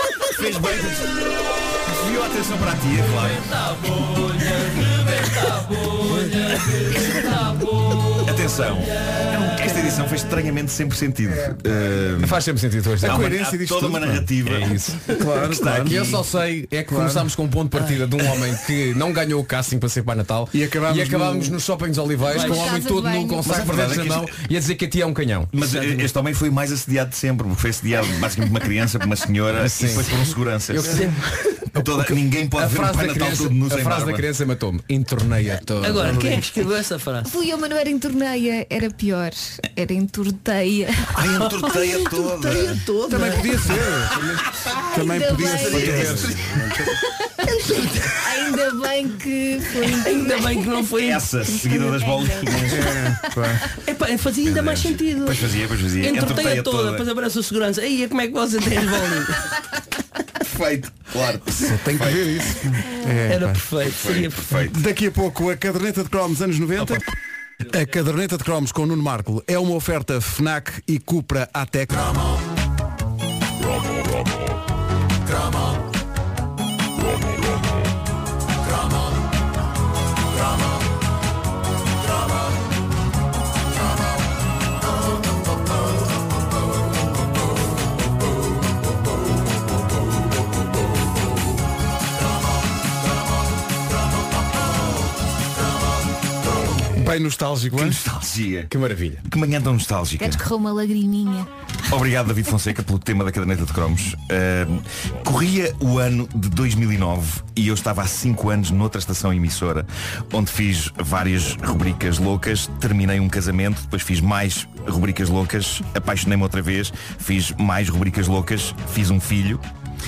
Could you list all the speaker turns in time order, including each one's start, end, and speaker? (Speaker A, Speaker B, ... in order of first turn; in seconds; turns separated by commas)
Speaker A: 0.3-1.2, Speaker A: 1.8-3.5, Speaker B: 3.7-8.2, Speaker A: 8.2-12.4, Speaker C: 12.2-13.3, Speaker A: 13.0-14.8, Speaker D: 13.0-14.3, Speaker C: 14.4-15.0, Speaker D: 15.1-16.2, Speaker A: 15.4-16.2, Speaker C: 15.8-25.5, Speaker D: 16.9-17.3, Speaker D: 20.5-21.6, Speaker B: 22.3-22.7, Speaker E: 22.3-23.6, Speaker A: 23.4-24.4, Speaker A: 25.5-30.9, Speaker B: 25.6-26.0, Speaker C: 29.6-30.1, Speaker C: 30.7-31.1, Speaker B: 30.8-31.7, Speaker C: 31.7-36.2, Speaker A: 31.8-34.3, Speaker B: 35.8-37.3, Speaker D: 36.0-36.4, Speaker E: 37.2-41.1, Speaker A: 41.1-42.8, Speaker B: 41.7-44.3, Speaker D: 43.1-44.3, Speaker D: 44.9-46.9, Speaker E: 44.9-46.1, Speaker A: 45.5-46.4, Speaker B: 47.5-48.2, Speaker E: 48.2-50.6, Speaker B: 49.8-51.2, Speaker A: 51.0-52.9, Speaker E: 51.7-52.5, Speaker D: 52.7-53.7, Speaker B: 53.7-59.5, Speaker A: 54.4-57.1, Speaker A: 60.4-62.6, Speaker D: 61.5-63.6, Speaker B: 63.3-64.7, Speaker A: 63.8-64.8, Speaker D: 64.7-67.1, Speaker D: 67.6-72.2, Speaker D: 96.9-98.0, Speaker A: 97.7-98.7, Speaker C: 98.7-99.2, Speaker A: 99.2-100.4, Speaker E: 100.2-101.5, Speaker A: 101.9-119.6